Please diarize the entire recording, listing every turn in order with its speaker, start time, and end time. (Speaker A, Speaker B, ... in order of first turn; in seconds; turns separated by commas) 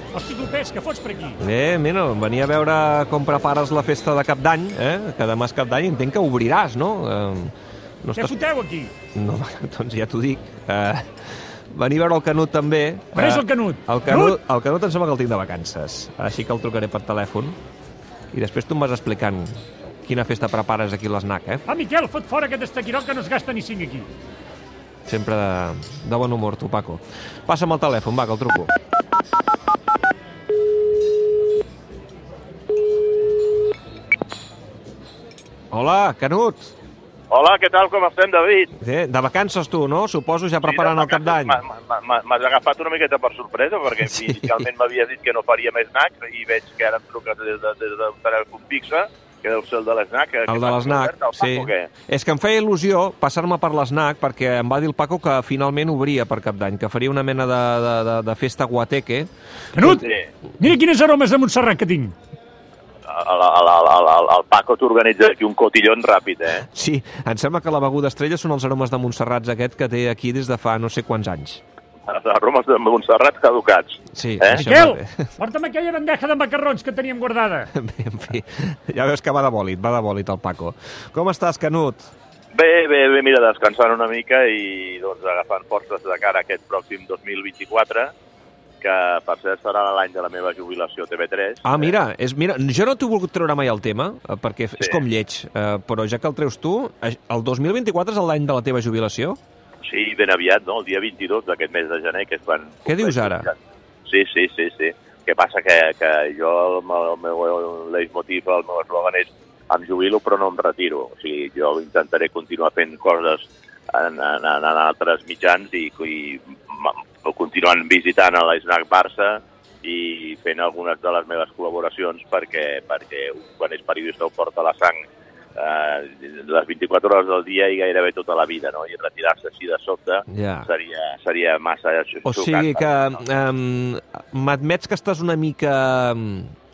Speaker A: 0.1-1.4, Speaker B: 1.4-8.3, Speaker A: 8.2-8.9, Speaker B: 9.1-17.6, Speaker A: 13.1-14.3, Speaker B: 18.3-19.5, Speaker B: 20.1-21.6, Speaker A: 21.7-24.1, Speaker B: 25.1-28.7, Speaker B: 35.7-36.7, Speaker C: 37.3-38.7, Speaker B: 38.8-41.6, Speaker C: 40.6-51.9, Speaker B: 44.1-44.6, Speaker B: 50.5-59.3, Speaker A: 59.8-60.0, Speaker C: 59.9-60.3, Speaker A: 60.6-62.1, Speaker C: 63.1-66.6, Speaker B: 66.7-71.6, Speaker C: 72.0-74.7, Speaker B: 74.1-75.3, Speaker A: 74.5-77.7, Speaker B: 77.7-82.1, Speaker C: 82.5-88.1, Speaker C: 88.8-91.9, Speaker B: 91.6-99.4, Speaker C: 99.8-125.0, Speaker B: 102.8-103.5, Speaker C: 125.5-133.2, Speaker B: 130.3-130.7, Speaker B: 132.2-136.5